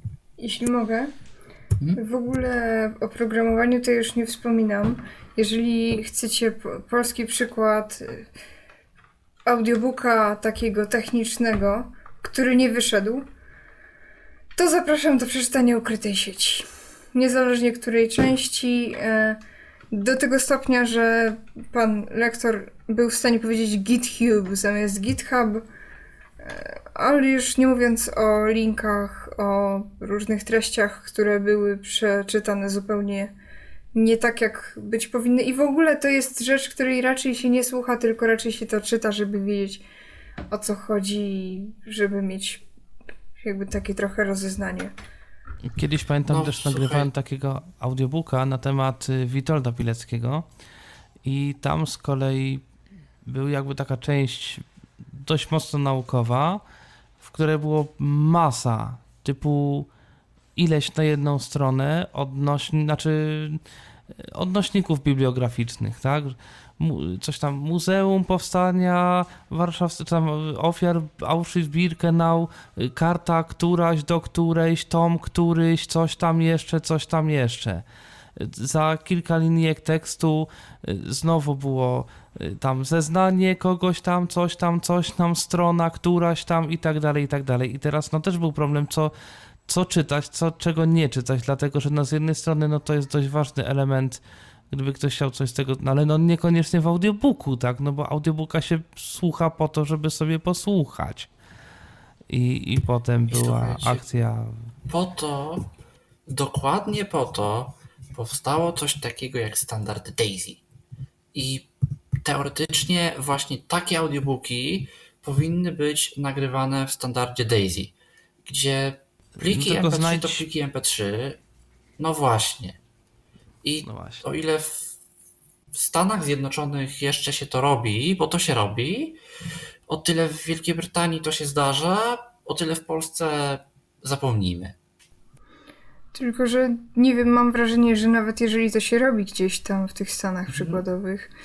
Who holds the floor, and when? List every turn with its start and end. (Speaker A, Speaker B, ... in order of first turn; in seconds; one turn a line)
Speaker A: 0.4-1.1
Speaker A: 2.0-8.3
Speaker A: 9.5-13.2
Speaker A: 14.6-19.4
Speaker A: 19.9-25.6
Speaker A: 26.4-33.3
Speaker A: 33.9-39.8
Speaker A: 40.5-42.6
Speaker A: 43.4-44.9
Speaker B: 45.7-50.5
Speaker C: 46.3-47.1
Speaker B: 51.2-52.6
Speaker B: 53.2-56.6
Speaker B: 57.2-59.9
Speaker B: 60.6-63.6
Speaker B: 64.2-77.8
Speaker B: 78.4-89.1
Speaker B: 89.7-101.3
Speaker B: 102.3-104.6
Speaker C: 103.3-104.2
Speaker C: 104.9-105.7
Speaker C: 106.3-110.6
Speaker C: 111.3-111.7
Speaker C: 112.2-117.9
Speaker C: 118.5-121.4
Speaker B: 119.4-120.5
Speaker C: 122.0-122.8
Speaker C: 123.6-125.0
Speaker B: 123.9-124.2
Speaker C: 125.7-129.2
Speaker C: 129.9-134.7
Speaker A: 136.1-141.3
Speaker C: 140.5-140.8